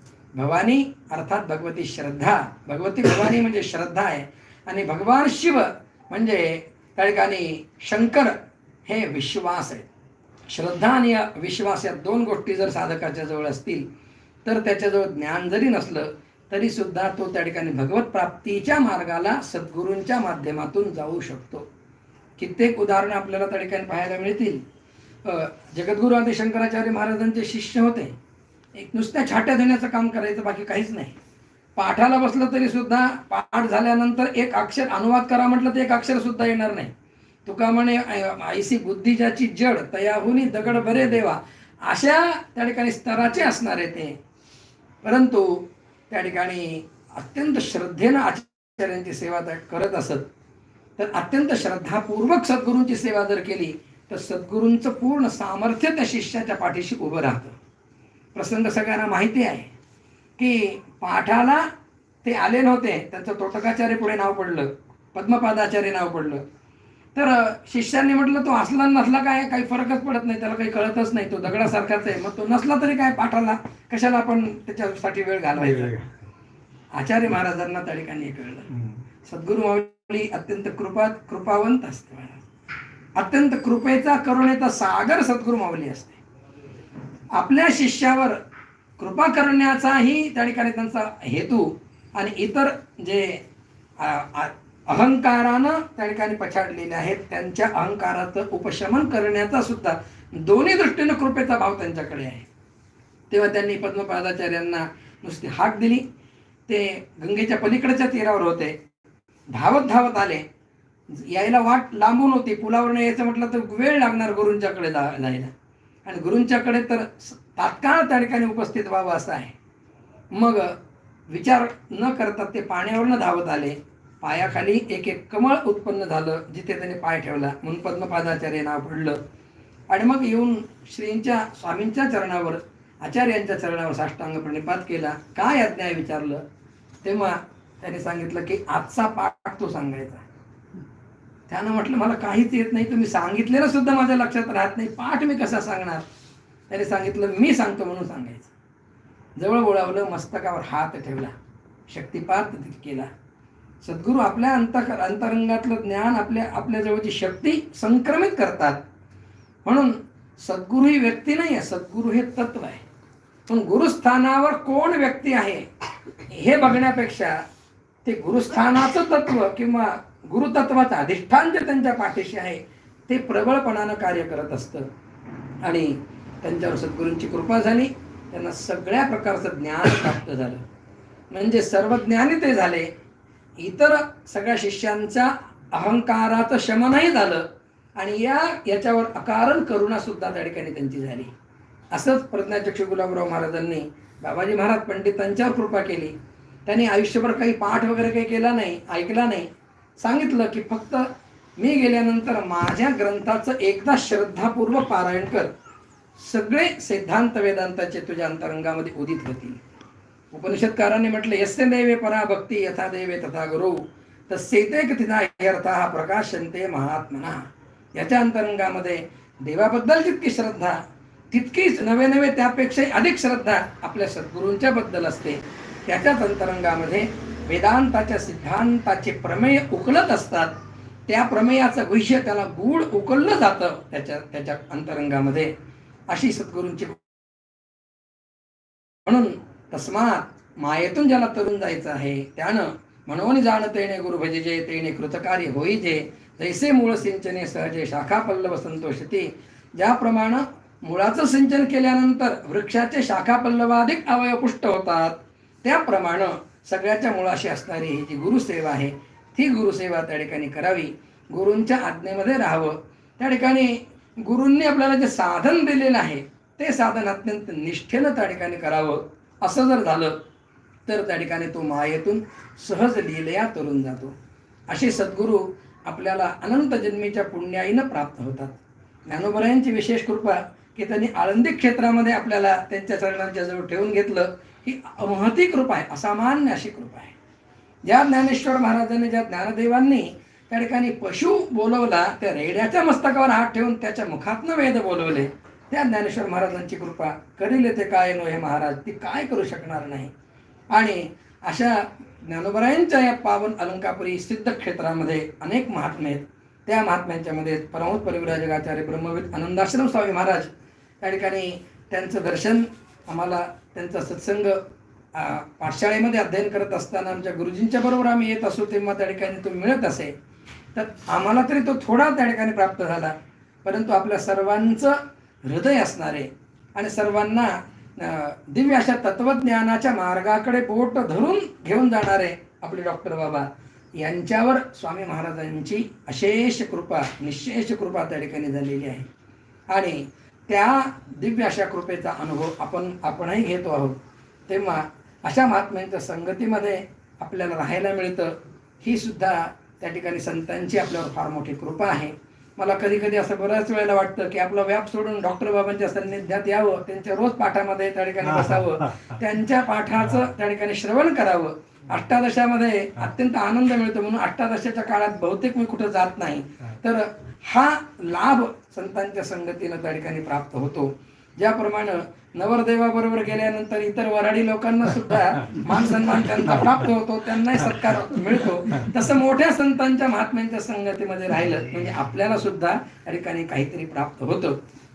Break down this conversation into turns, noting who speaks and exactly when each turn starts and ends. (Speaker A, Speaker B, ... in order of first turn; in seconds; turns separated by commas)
Speaker A: 0.3-9.9, Speaker A: 10.5-13.9, Speaker A: 14.4-21.7, Speaker A: 22.4-24.6, Speaker A: 25.2-28.1, Speaker A: 28.8-31.2, Speaker A: 31.8-36.9, Speaker A: 37.5-44.1, Speaker A: 45.0-50.3, Speaker A: 51.0-57.6, Speaker A: 58.3-59.7, Speaker A: 60.4-61.7, Speaker A: 62.2-66.4, Speaker A: 67.1-76.0, Speaker A: 77.0-78.7, Speaker A: 79.2-82.5, Speaker A: 83.2-86.2, Speaker A: 87.3-88.4, Speaker A: 89.0-93.4, Speaker A: 94.0-102.5, Speaker A: 103.3-106.0, Speaker A: 106.7-108.8, Speaker A: 109.5-110.5, Speaker A: 111.1-115.5, Speaker A: 116.0-119.5, Speaker A: 120.3-120.8, Speaker A: 121.3-129.2, Speaker A: 129.9-136.4, Speaker A: 137.0-140.2, Speaker A: 141.5-146.1, Speaker A: 146.7-148.5, Speaker A: 149.4-151.3, Speaker A: 151.9-153.1, Speaker A: 153.8-158.8, Speaker A: 159.6-162.8, Speaker A: 163.5-165.7, Speaker A: 166.2-167.4, Speaker A: 168.1-174.9, Speaker A: 175.6-180.6, Speaker A: 181.3-182.9, Speaker A: 183.6-191.3, Speaker A: 191.9-196.1, Speaker A: 196.7-201.1, Speaker A: 201.6-205.5, Speaker A: 206.2-209.6, Speaker A: 210.3-217.4, Speaker A: 217.9-220.8, Speaker A: 221.3-230.6, Speaker A: 231.1-235.5, Speaker A: 236.1-237.1, Speaker A: 239.1-270.2, Speaker A: 270.9-274.1, Speaker A: 274.7-287.1, Speaker A: 287.9-300.1, Speaker A: 300.7-314.6, Speaker A: 315.1-320.1, Speaker A: 320.8-333.5, Speaker A: 334.0-339.1, Speaker A: 339.7-344.0, Speaker A: 344.5-384.6